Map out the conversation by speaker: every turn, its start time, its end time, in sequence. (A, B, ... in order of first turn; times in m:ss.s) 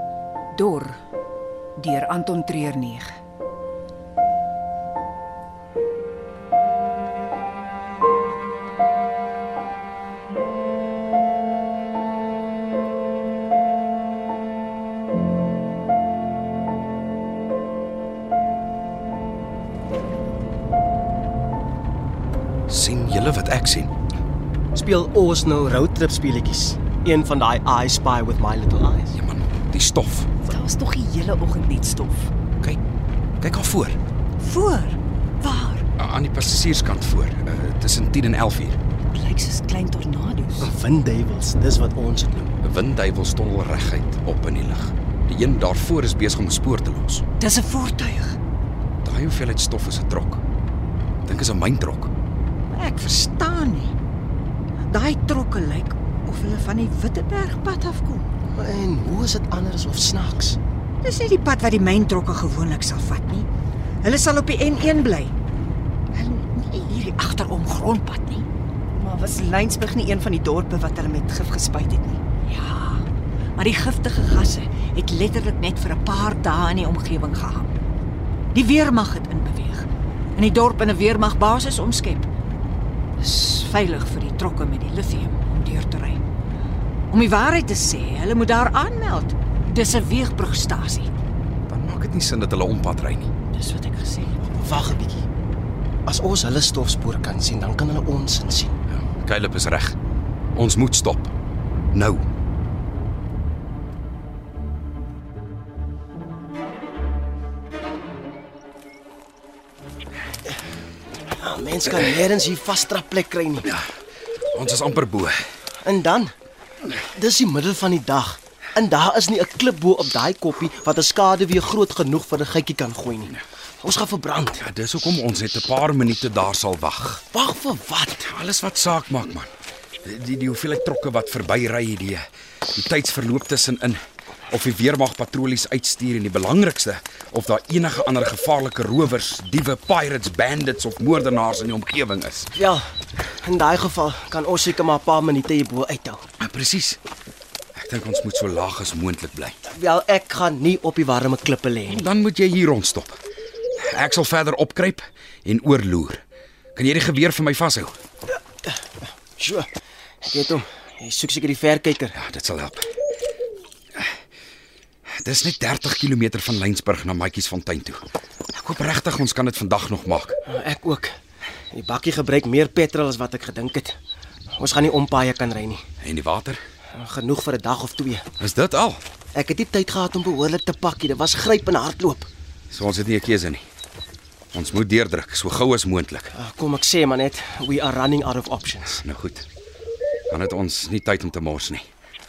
0:00.5-0:01.0 A
0:01.8-0:03.1 A
0:22.7-0:23.9 B
0:24.7-0:29.1 C
0:29.1-0:30.3 B
0:30.4-0:32.3 D
0:33.4-0:34.0 B
0:34.4-0:35.8 A
0:36.0-0:38.8 B
0:39.1-0:40.7 D
0:40.6-0:42.5 C
0:42.6-0:47.2 B
0:47.4-0:48.4 A
0:49.0-0:50.4 B
0:51.2-0:52.1 B
0:52.7-0:54.0 A
0:54.8-0:58.3 A
0:58.6-1:00.6 C
1:01.0-1:03.5 A
1:04.0-1:05.3 A
1:06.1-1:08.5 A
1:08.9-1:12.2 D
1:12.6-1:17.8 A
1:18.5-1:22.3 A
1:23.2-1:26.3 A
1:27.1-1:31.1 A
1:31.7-1:33.3 B
1:33.5-1:34.3 A
1:34.5-1:35.3 C
1:36.1-1:38.8 C
1:38.9-1:40.0 B
1:40.5-1:41.3 B
1:41.9-1:42.2 B
1:51.4-1:53.7 C
1:54.5-1:55.4 B
1:55.8-1:56.3 C
1:57.0-2:04.7 C
2:04.6-2:07.2 B
2:07.3-2:08.3 C
2:08.2-2:09.5 B
2:10.0-2:22.6 B
2:22.6-2:22.9 C
2:23.4-2:26.2 C
2:26.4-2:27.0 B
2:27.8-2:29.6 B
2:29.6-2:32.1 C
2:31.9-2:33.2 B
2:33.8-2:36.2 B
2:36.8-2:37.9 B
2:39.4-2:39.7 C
2:40.2-2:42.2 C
2:42.2-2:42.8 B
2:45.2-2:48.0 B
2:48.5-2:50.4 B
2:50.5-2:51.2 C
2:51.7-2:54.0 C
2:54.6-2:55.8 C
2:56.0-2:56.6 B
2:56.9-2:58.3 C
2:58.4-2:59.0 B
2:59.3-3:02.3 C
3:02.7-3:03.6 B
3:04.5-3:06.3 B
3:06.3-3:09.0 C
3:08.9-3:09.5 B
3:10.3-3:11.9 B